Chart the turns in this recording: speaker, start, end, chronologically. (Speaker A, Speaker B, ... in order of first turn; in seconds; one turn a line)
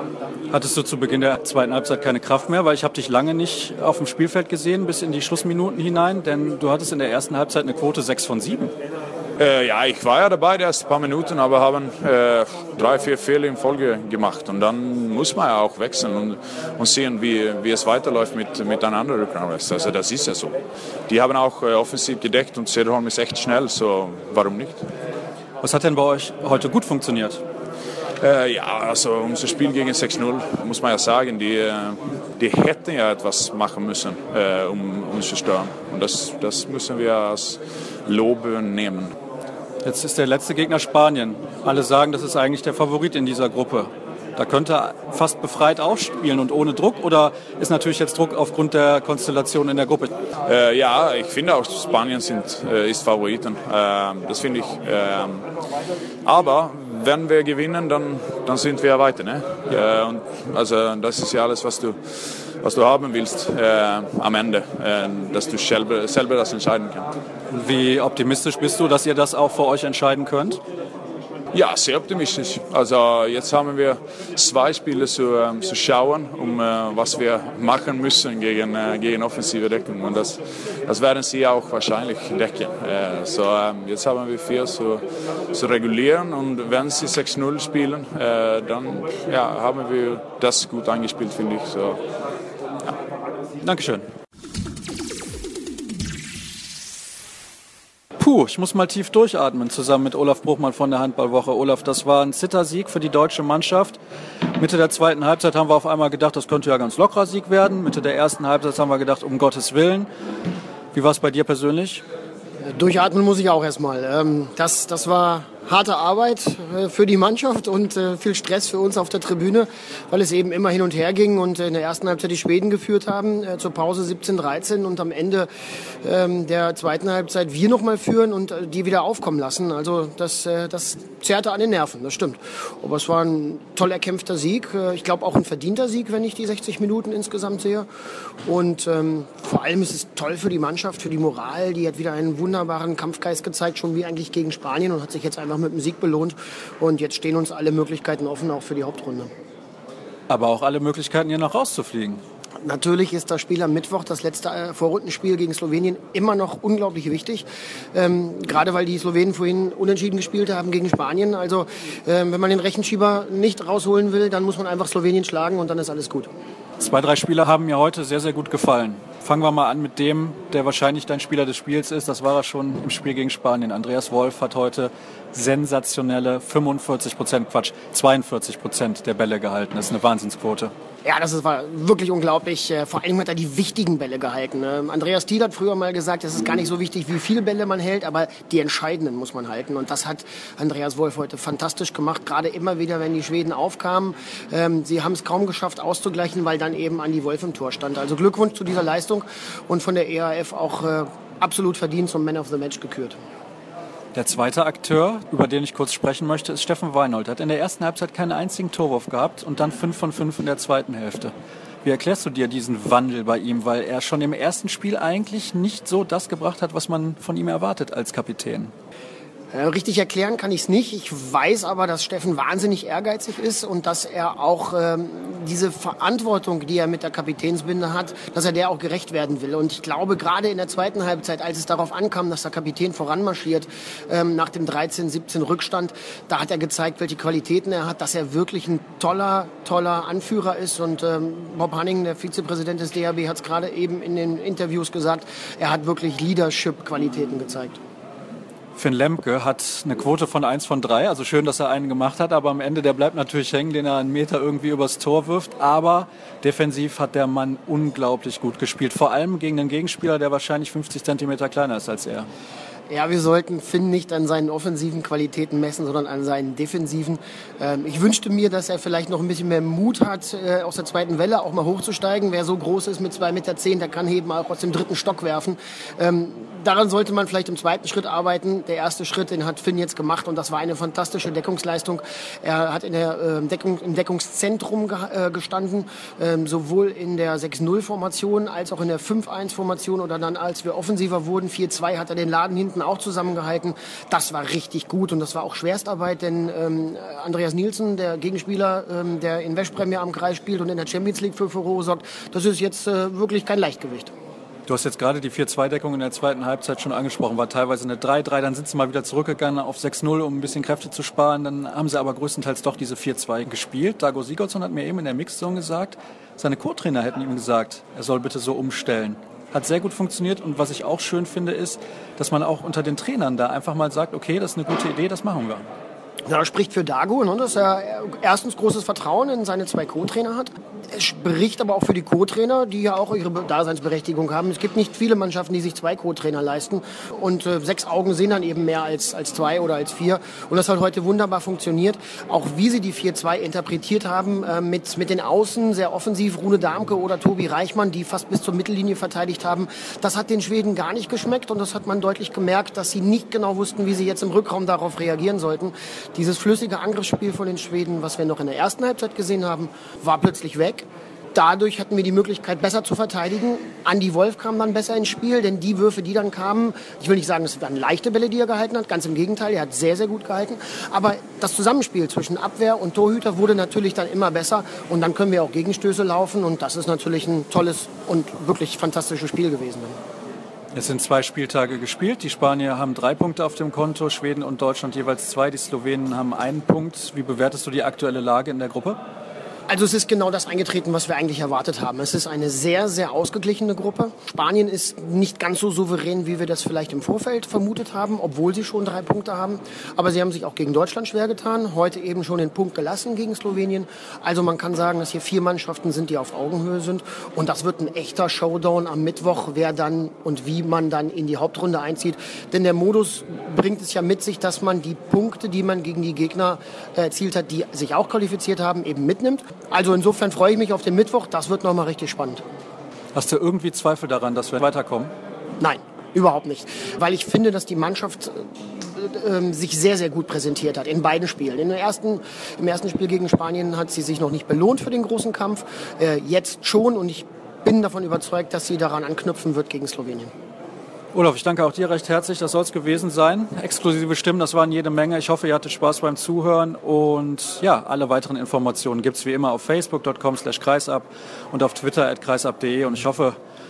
Speaker A: 0.5-8.7
Speaker B: 9.4-20.6
Speaker B: 21.1-24.8
Speaker A: 25.6-27.4
Speaker B: 28.2-39.1
Speaker A: 39.8-50.1
Speaker B: 50.4-55.5
Speaker B: 56.2-62.0
Speaker B: 62.5-67.0
Speaker A: 67.5-70.6
Speaker B: 71.5-92.0
Speaker A: 93.6-94.0
Speaker A: 98.2-104.0
Speaker A: 104.6-110.1
Speaker A: 110.9-112.0
Speaker C: 112.6-125.5
Speaker C: 126.0-137.9
Speaker C: 138.4-149.3
Speaker A: 150.3-152.2
Speaker C: 152.6-166.3
Speaker A: 166.8-180.7
Speaker C: 181.0-203.2
Speaker A: 204.1-211.3
Speaker A: 211.8-218.7
Speaker C: 219.5-247.8
Speaker A: 248.8-262.3
Speaker C: 262.9-304.1
Speaker A: 304.7-325.6
Speaker C: 326.2-380.0
Speaker A: 380.7-389.0
Speaker C: 389.7-422.4
Speaker A: 423.1-425.1
Speaker C: 425.6-440.3
Speaker A: 441.1-453.4